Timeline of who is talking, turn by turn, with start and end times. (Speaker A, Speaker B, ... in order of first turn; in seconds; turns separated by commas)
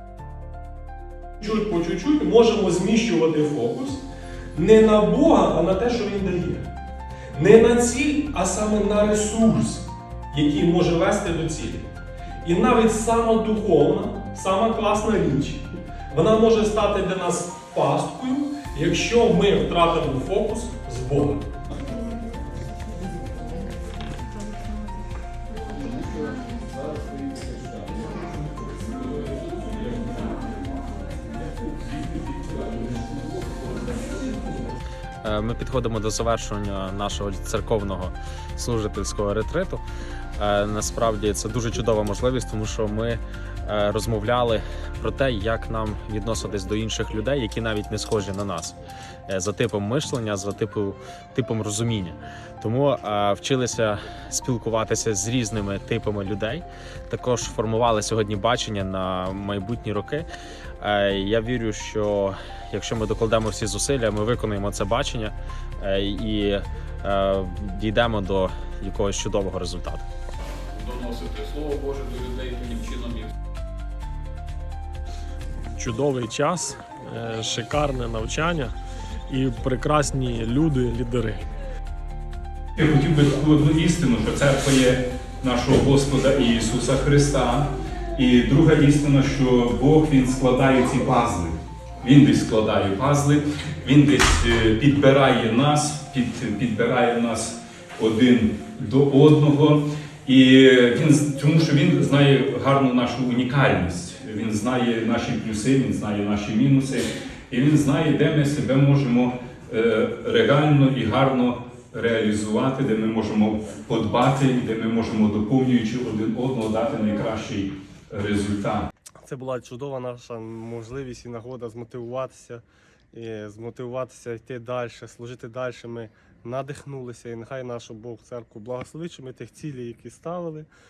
Speaker A: 1.8-4.0, Speaker B: 2.2-3.0, Speaker A: 4.6-6.6, Speaker B: 5.3-5.7, Speaker A: 7.7-11.8, Speaker A: 12.4-21.3, Speaker C: 35.2-39.8, Speaker C: 40.4-48.8, Speaker C: 49.3-60.3, Speaker C: 60.8-70.0, Speaker D: 70.7-73.3, Speaker B: 75.8-78.7, Speaker B: 79.3-81.4, Speaker E: 82.8-118.9, Speaker B: 119.2-130.7